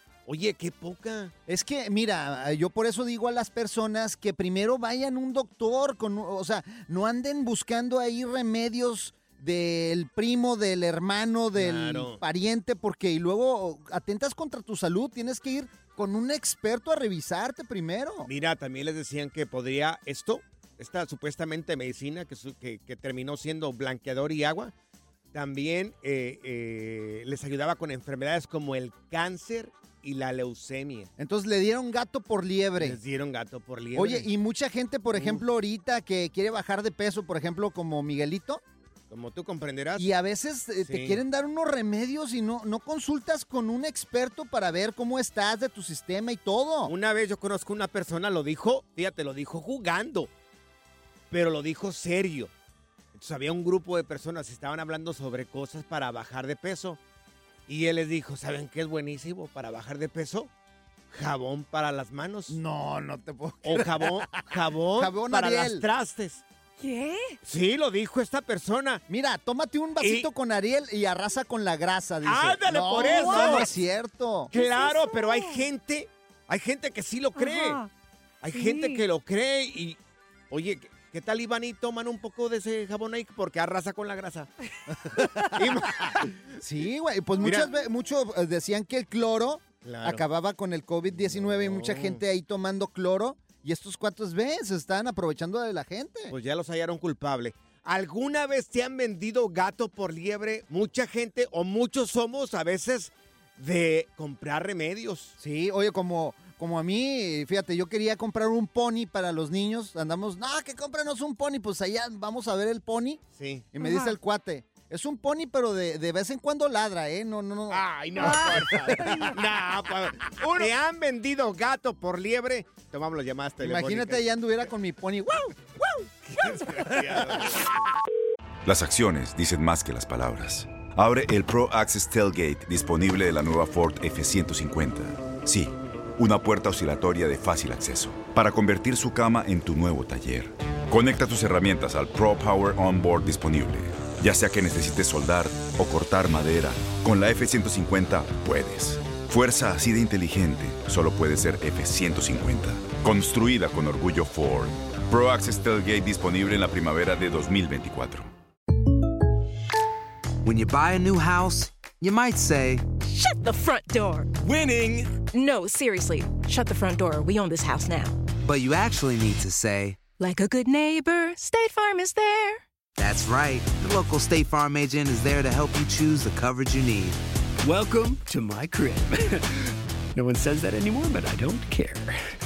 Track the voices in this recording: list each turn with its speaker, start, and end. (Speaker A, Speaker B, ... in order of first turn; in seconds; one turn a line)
Speaker A: 0.2-1.3
Speaker B: 1.5-18.3
Speaker A: 11.6-12.2
Speaker A: 18.3-24.7
Speaker A: 25.3-31.1
Speaker B: 31.2-33.0
Speaker A: 32.8-34.3
Speaker B: 33.9-38.6
Speaker A: 35.1-35.4
Speaker A: 39.1-40.0
Speaker B: 40.0-46.9
Speaker A: 40.9-41.2
Speaker A: 46.9-50.3
Speaker A: 51.3-52.5
Speaker A: 53.1-57.0
Speaker A: 57.7-60.5
Speaker A: 61.1-62.6
Speaker B: 62.5-65.8
Speaker A: 63.6-66.4
Speaker C: 66.8-67.4
Speaker A: 67.4-69.0
Speaker B: 69.1-74.5
Speaker A: 70.0-70.3
Speaker A: 72.2-73.7
Speaker C: 73.0-73.8
Speaker C: 74.5-75.6
Speaker A: 74.5-77.8
Speaker C: 77.3-77.9
Speaker A: 78.4-80.0
Speaker C: 78.5-79.0
Speaker A: 80.5-84.5
Speaker B: 85.1-85.7
Speaker A: 85.5-86.6
Speaker B: 86.6-96.3
Speaker C: 87.3-87.9
Speaker A: 89.8-90.2
Speaker A: 91.1-92.2
Speaker A: 96.3-105.3
Speaker B: 105.4-113.2
Speaker A: 113.4-113.6
Speaker B: 113.7-119.4
Speaker C: 113.8-114.1
Speaker A: 117.7-124.2
Speaker C: 118.2-119.3
Speaker B: 123.6-127.4
Speaker A: 126.2-127.7
Speaker D: 128.6-158.3
Speaker E: 160.4-162.9
Speaker F: 163.0-164.3
Speaker F: 165.3-168.1
Speaker E: 168.4-170.0
Speaker F: 170.2-172.6
Speaker E: 173.0-177.2
Speaker G: 178.1-179.1
Speaker G: 180.2-182.1